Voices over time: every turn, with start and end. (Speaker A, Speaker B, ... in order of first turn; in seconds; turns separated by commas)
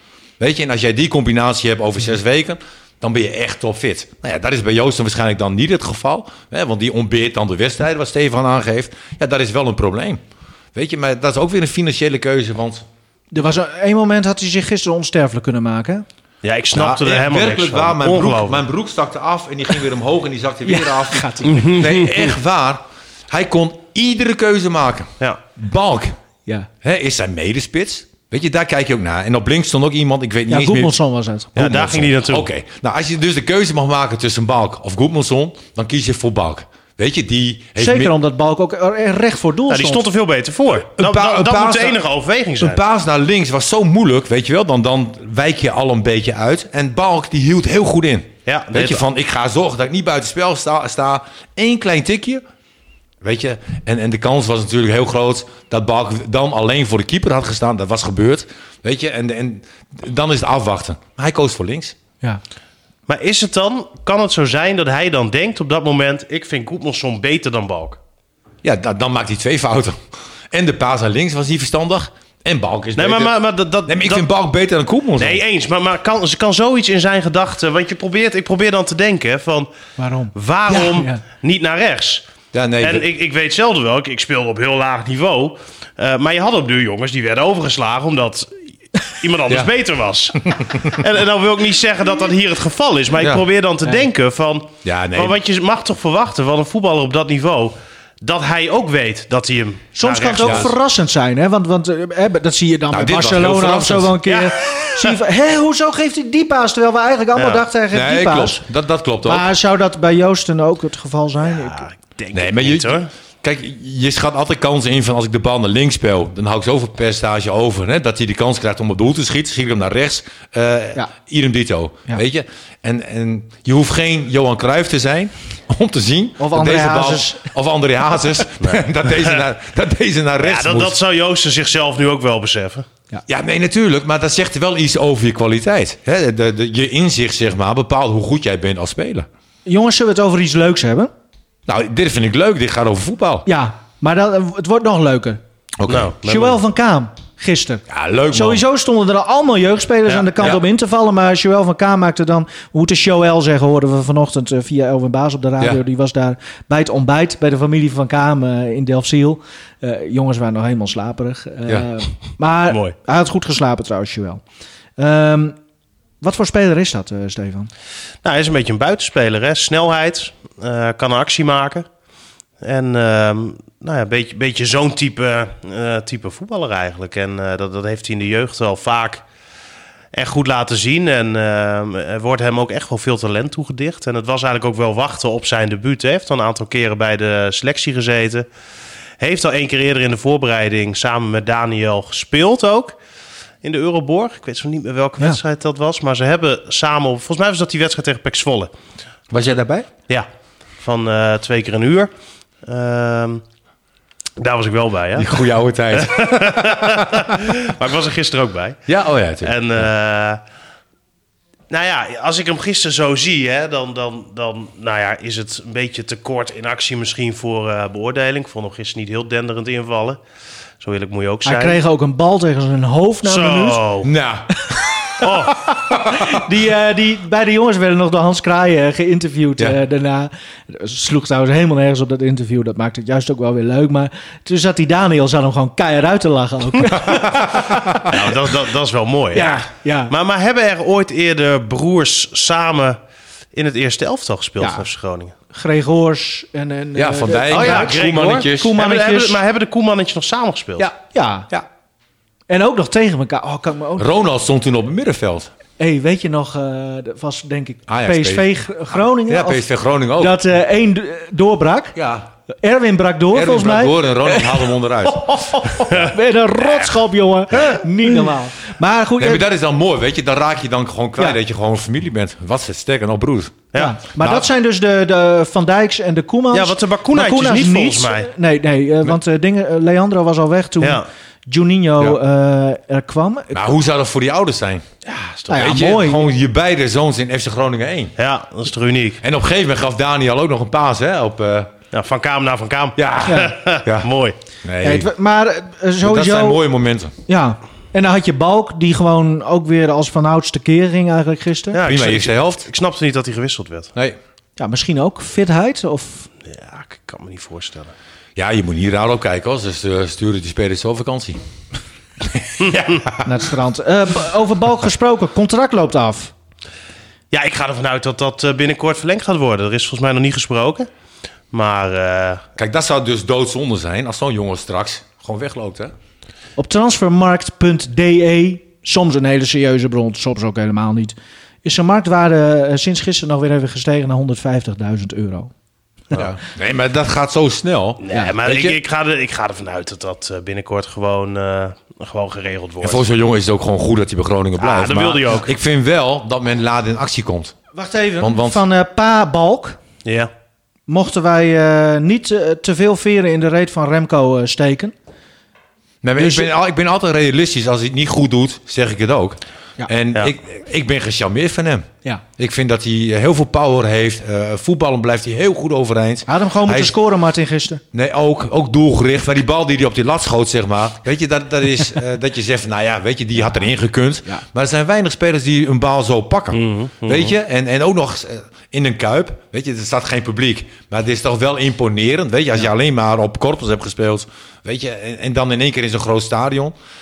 Speaker A: 0.4-10.2, Speaker A: 10.7-12.8, Speaker B: 13.3-16.0, Speaker C: 16.4-18.6, Speaker A: 16.7-26.1, Speaker B: 20.6-21.7, Speaker C: 21.4-22.3, Speaker A: 26.8-30.9, Speaker B: 30.5-31.8, Speaker C: 31.6-32.5, Speaker A: 31.6-38.1, Speaker B: 37.8-40.0, Speaker C: 39.7-42.8, Speaker A: 40.8-42.0, Speaker A: 42.6-52.4, Speaker C: 48.5-49.0, Speaker A: 53.2-62.0, Speaker C: 63.1-68.0, Speaker A: 68.6-70.0, Speaker A: 70.5-73.3, Speaker C: 73.0-74.2, Speaker A: 73.8-75.4, Speaker C: 75.2-79.7, Speaker B: 80.0-81.2, Speaker C: 80.3-82.2, Speaker A: 82.5-83.1, Speaker C: 82.8-100.7, Speaker A: 90.4-91.0, Speaker A: 93.2-93.4, Speaker A: 94.8-95.4, Speaker B: 100.0-108.6, Speaker A: 100.4-100.7, Speaker A: 102.9-104.2, Speaker C: 104.2-105.2, Speaker C: 107.3-107.6, Speaker A: 107.9-109.5, Speaker B: 109.2-111.9, Speaker C: 111.4-113.1, Speaker A: 112.3-131.0, Speaker B: 126.4-127.5, Speaker C: 128.6-129.4, Speaker C: 130.4-132.8, Speaker A: 133.3-139.3, Speaker B: 139.7-141.1, Speaker A: 141.7-143.5, Speaker B: 143.4-145.4, Speaker A: 145.8-146.1, Speaker C: 145.9-146.6, Speaker B: 146.2-164.4, Speaker A: 147.9-148.6, Speaker B: 165.0-165.6, Speaker B: 166.2-167.7, Speaker C: 168.2-171.8, Speaker C: 172.6-179.2, Speaker C: 180.1-188.4, Speaker C: 189.2-192.9, Speaker C: 193.6-198.7, Speaker A: 199.3-199.9, Speaker C: 200.8-202.1, Speaker C: 202.6-203.4, Speaker C: 204.4-205.4, Speaker A: 205.1-207.4, Speaker C: 205.9-208.8, Speaker A: 208.9-209.9, Speaker C: 209.4-210.4, Speaker C: 211.7-220.2, Speaker C: 220.8-221.8, Speaker B: 221.4-223.8, Speaker C: 223.2-224.1, Speaker A: 224.0-224.9, Speaker B: 225.2-238.1, Speaker C: 225.2-225.6, Speaker A: 225.9-226.4, Speaker A: 236.9-238.2, Speaker C: 238.1-243.0, Speaker B: 239.3-240.1, Speaker C: 243.5-245.3, Speaker B: 244.6-244.8, Speaker B: 245.5-249.4, Speaker A: 246.9-248.7, Speaker C: 247.5-250.9, Speaker B: 250.8-251.6, Speaker B: 252.5-254.1, Speaker A: 254.0-255.5, Speaker B: 255.8-262.0, Speaker A: 257.9-260.4, Speaker A: 261.9-262.3, Speaker B: 262.6-264.7, Speaker A: 263.3-266.1, Speaker B: 265.2-269.4, Speaker A: 269.2-273.7, Speaker C: 273.7-274.0, Speaker B: 273.7-283.6, Speaker A: 274.2-274.5, Speaker C: 276.5-278.3, Speaker C: 280.8-281.1, Speaker A: 283.5-284.9, Speaker C: 285.1-285.7, Speaker B: 285.5-286.2, Speaker A: 285.5-288.1, Speaker C: 288.2-289.2, Speaker A: 289.2-291.7, Speaker C: 291.9-294.4, Speaker A: 293.0-294.1, Speaker B: 293.2-293.5, Speaker A: 294.6-295.1, Speaker B: 294.8-296.6, Speaker A: 296.0-297.1, Speaker B: 297.3-301.8, Speaker C: 301.7-303.9, Speaker A: 301.8-302.7, Speaker B: 304.6-306.3, Speaker C: 306.4-307.9, Speaker A: 308.4-311.4, Speaker A: 312.2-313.2, Speaker B: 313.2-316.3, Speaker C: 317.3-320.9, Speaker C: 321.5-322.4, Speaker A: 322.6-325.9, Speaker B: 326.6-335.5, Speaker A: 336.1-338.8, Speaker C: 338.0-343.0, Speaker A: 342.8-347.6, Speaker C: 344.6-345.5, Speaker B: 347.7-349.8, Speaker A: 348.2-348.6, Speaker C: 350.0-350.3, Speaker B: 350.9-354.9, Speaker A: 356.0-366.9, Speaker B: 356.2-356.5, Speaker B: 366.3-367.8, Speaker A: 367.9-386.7, Speaker C: 376.5-377.3